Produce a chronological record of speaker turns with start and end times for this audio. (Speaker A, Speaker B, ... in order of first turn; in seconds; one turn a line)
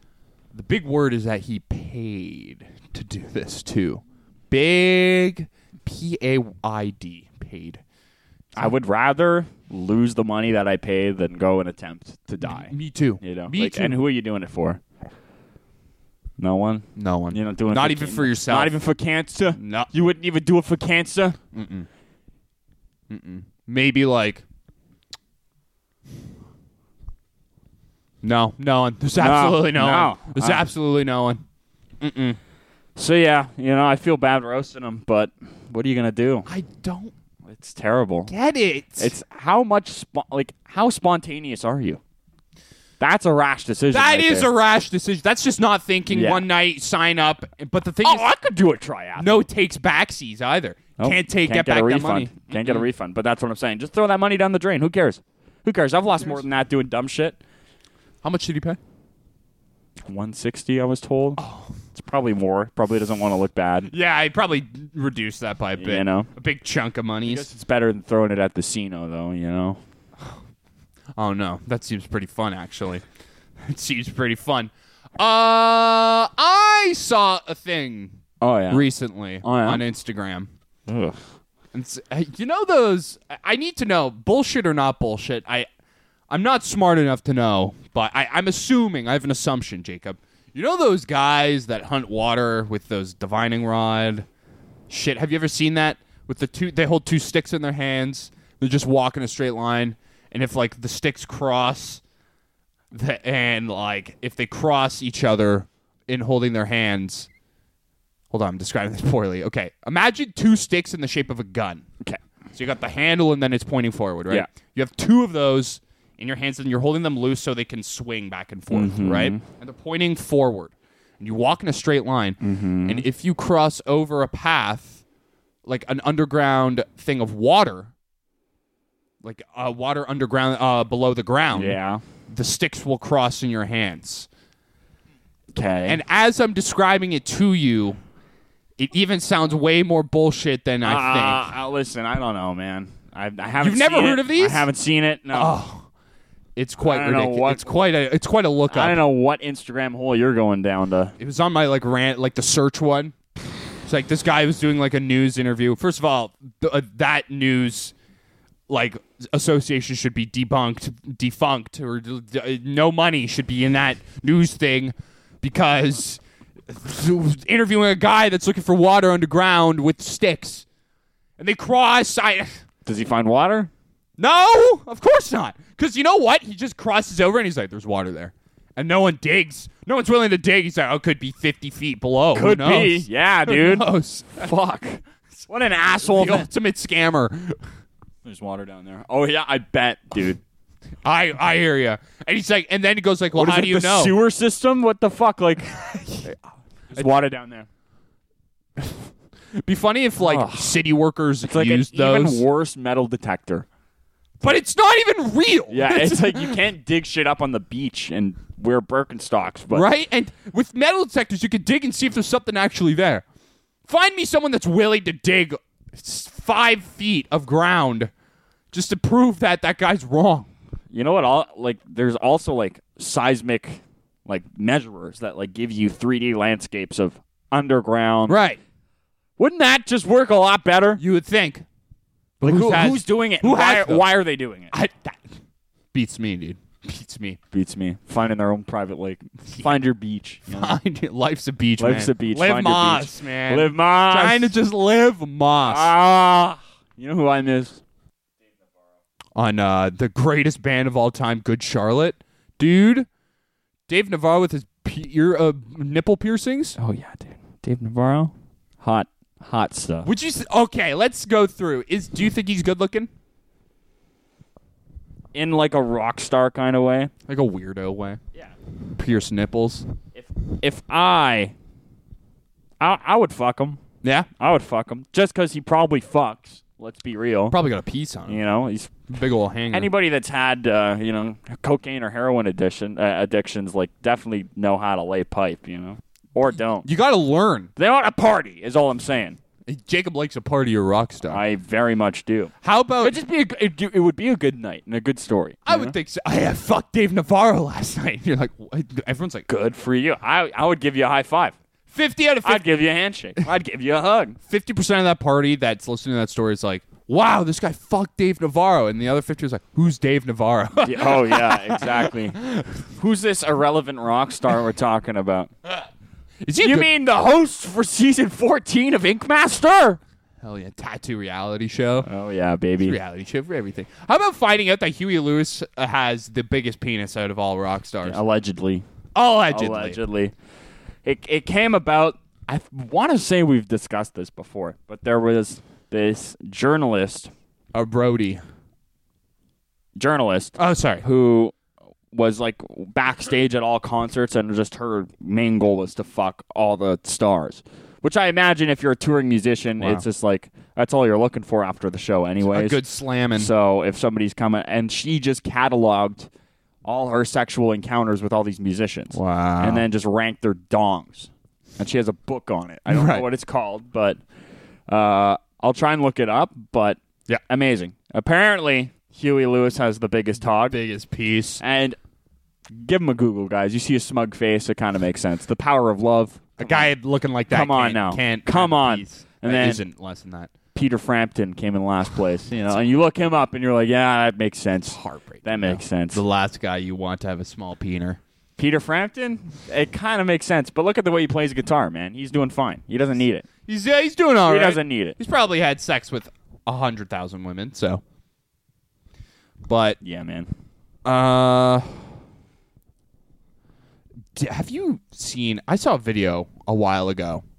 Speaker A: 0.5-7.8
Speaker B: 8.6-14.8
Speaker A: 12.4-14.0
Speaker B: 16.4-21.4
Speaker A: 16.9-18.7
Speaker A: 19.6-19.9
Speaker A: 21.5-21.9
Speaker A: 23.1-24.4
Speaker A: 28.2-31.4
Speaker B: 29.2-30.6
Speaker A: 32.0-32.4
Speaker B: 33.0-36.5
Speaker A: 36.5-37.1
Speaker B: 37.5-38.3
Speaker A: 38.3-39.1
Speaker B: 39.0-42.0
Speaker B: 43.0-44.5
Speaker A: 43.9-48.3
Speaker B: 46.1-46.4
Speaker B: 48.0-49.5
Speaker A: 49.2-52.9
Speaker B: 51.0-57.4
Speaker A: 58.2-58.8
Speaker B: 60.0-63.9
Speaker A: 61.4-61.8
Speaker A: 63.9-67.5
Speaker B: 65.8-66.3
Speaker B: 67.2-69.8
Speaker A: 71.2-73.0
Speaker A: 73.6-78.2
Speaker B: 78.4-78.9
Speaker A: 78.7-80.5
Speaker B: 79.4-79.8
Speaker B: 80.9-81.2
Speaker A: 81.7-85.7
Speaker A: 86.3-94.3
Speaker A: 94.9-102.0
Speaker A: 102.9-107.3
Speaker A: 108.3-111.9
Speaker A: 112.5-125.0
Speaker B: 118.7-119.4
Speaker B: 122.4-123.0
Speaker A: 125.6-127.9
Speaker A: 129.2-134.3
Speaker B: 131.5-132.0
Speaker B: 135.5-136.0
Speaker A: 135.9-138.0
Speaker A: 138.8-141.5
Speaker B: 140.8-145.6
Speaker A: 143.6-144.7
Speaker A: 145.3-145.9
Speaker A: 146.6-149.0
Speaker B: 146.8-147.7
Speaker B: 148.7-151.1
Speaker A: 151.2-153.2
Speaker A: 153.8-157.9
Speaker A: 158.7-170.7
Speaker A: 171.4-172.6
Speaker B: 172.8-173.7
Speaker A: 174.2-184.5
Speaker B: 182.3-186.5
Speaker A: 186.0-187.6
Speaker B: 188.2-190.4
Speaker A: 191.0-194.2
Speaker B: 193.3-195.8
Speaker A: 195.7-196.4
Speaker A: 196.9-197.2
Speaker B: 196.9-197.7
Speaker A: 199.6-202.4
Speaker B: 200.2-200.7
Speaker B: 201.4-203.7
Speaker A: 204.4-206.6
Speaker B: 205.7-209.8
Speaker A: 209.7-213.2
Speaker A: 213.8-218.1
Speaker A: 218.7-220.5
Speaker B: 220.9-228.4
Speaker A: 228.3-228.6
Speaker B: 229.4-231.0
Speaker A: 231.0-231.6
Speaker A: 232.4-234.1
Speaker B: 232.4-234.7
Speaker A: 234.7-235.2
Speaker A: 235.9-237.4
Speaker B: 237.5-240.8
Speaker A: 240.5-245.9
Speaker B: 241.8-244.6
Speaker B: 245.6-247.8
Speaker A: 249.3-253.1
Speaker A: 253.9-256.8
Speaker B: 256.8-260.1
Speaker A: 260.0-263.1
Speaker B: 265.3-267.1
Speaker A: 267.3-268.2
Speaker A: 268.9-269.9
Speaker B: 270.1-271.5
Speaker B: 272.8-273.8
Speaker A: 274.0-274.3
Speaker B: 274.4-277.6
Speaker A: 277.5-278.4
Speaker B: 278.3-278.9
Speaker A: 279.1-279.9
Speaker B: 279.7-286.9
Speaker A: 286.8-287.7
Speaker B: 287.8-289.4
Speaker A: 289.6-291.4
Speaker B: 291.3-295.9
Speaker A: 292.6-293.2
Speaker A: 295.6-299.5
Speaker B: 299.5-301.6
Speaker A: 301.9-302.6
Speaker B: 302.4-304.4
Speaker A: 304.5-312.7
Speaker B: 310.8-312.4
Speaker B: 312.9-315.5
Speaker A: 316.4-316.9
Speaker B: 316.6-320.0
Speaker A: 320.4-322.1
Speaker B: 322.0-323.0
Speaker A: 322.8-328.2
Speaker B: 328.0-328.8
Speaker A: 329.1-330.0
Speaker B: 329.5-330.3
Speaker B: 331.0-337.3
Speaker A: 337.7-338.4
Speaker B: 339.9-341.5
Speaker A: 340.6-341.0
Speaker B: 342.1-352.8
Speaker A: 349.8-350.0
Speaker A: 352.5-353.5
Speaker B: 353.3-356.3
Speaker B: 356.8-364.2
Speaker A: 359.1-359.8
Speaker A: 362.9-363.2
Speaker B: 364.9-370.8
Speaker A: 370.7-371.6
Speaker B: 371.6-372.0
Speaker B: 372.7-376.9
Speaker A: 376.6-380.5
Speaker B: 377.5-379.8
Speaker B: 380.7-386.2
Speaker A: 384.9-388.2
Speaker B: 388.6-393.5
Speaker A: 393.7-398.0
Speaker B: 394.4-395.2
Speaker A: 399.7-400.0
Speaker B: 400.0-400.5
Speaker A: 401.0-402.0
Speaker A: 404.3-407.4